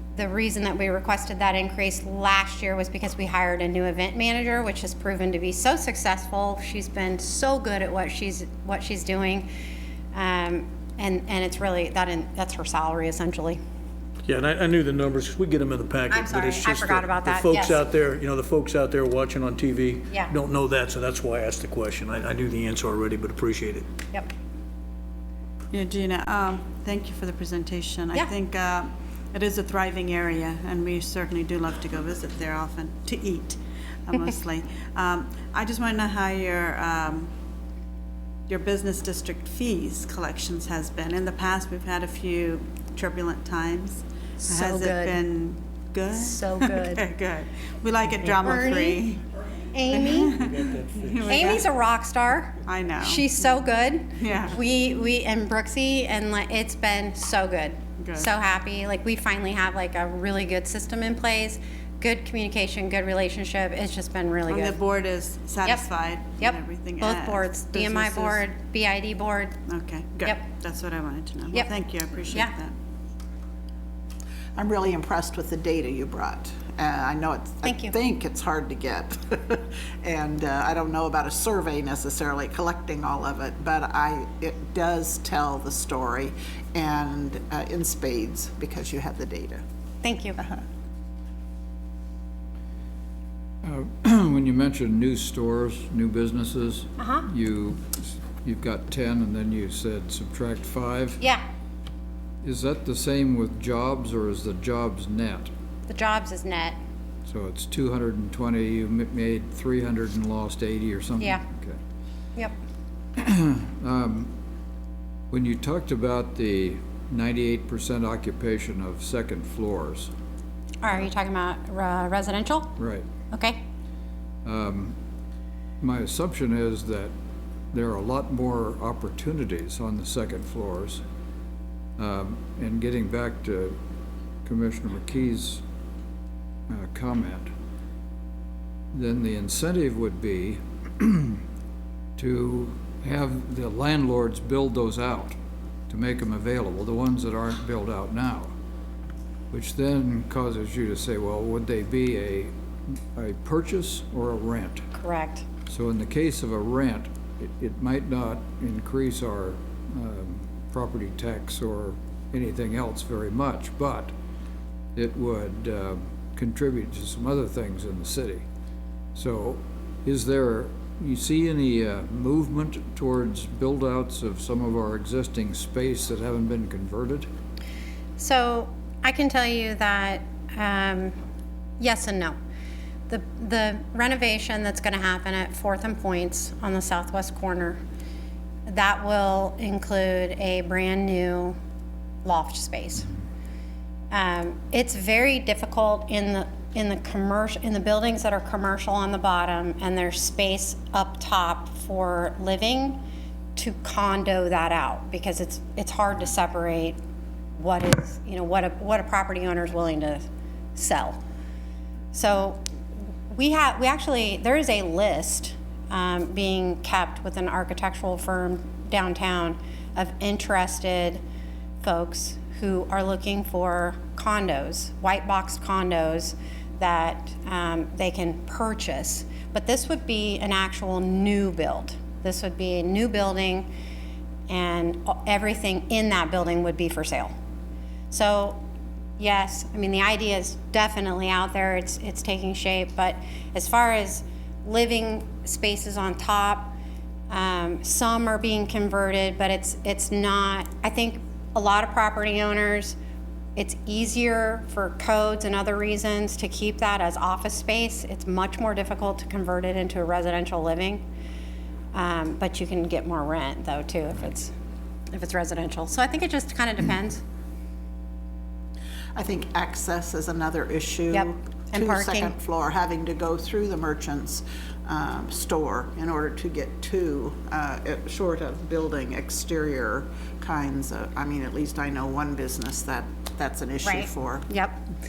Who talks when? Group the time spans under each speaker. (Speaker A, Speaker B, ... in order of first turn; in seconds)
Speaker A: 0.1-9.5, 10.1-13.6, 16.1-17.8, 44.4-45.1, 46.2-47.0, 48.2-49.0, 49.7-50.4, 51.3-64.8, 66.4-69.6, 77.6-77.9, 90.0-90.4, 97.0-97.3, 105.9-106.8, 120.8-122.7, 123.3-123.6, 154.9-155.4, 178.2-181.1, 181.8-182.4, 183.1-187.8, 188.7-191.6, 192.2-193.1, 194.1-203.0, 203.6-207.0, 207.6-211.2, 212.1-212.6, 213.3-221.2, 221.8-233.7, 234.5-237.3, 238.1-238.6, 239.2-246.8, 247.3-252.9, 253.6-261.0, 261.9-264.5, 265.1-267.2, 271.1-272.3, 283.8-284.8
Speaker B: 14.3-23.9
Speaker C: 25.7-37.3, 38.5-49.2, 49.9-51.6, 52.6-53.2, 54.2-54.5, 58.0-58.3, 64.5-68.4, 69.7-72.7
Speaker D: 74.5-89.6, 269.1-284.5
Speaker E: 93.6-101.2, 102.4-105.5, 107.2-111.8, 113.2-114.3, 115.3-120.1, 122.8-123.0, 124.4-125.0, 125.8-127.1, 127.7-131.0, 132.0-133.8, 134.4-135.6, 136.7-137.5, 138.9-141.4, 142.2-145.3, 145.9-148.5, 149.5-154.8, 155.7-164.1, 164.9-168.4, 169.1-177.3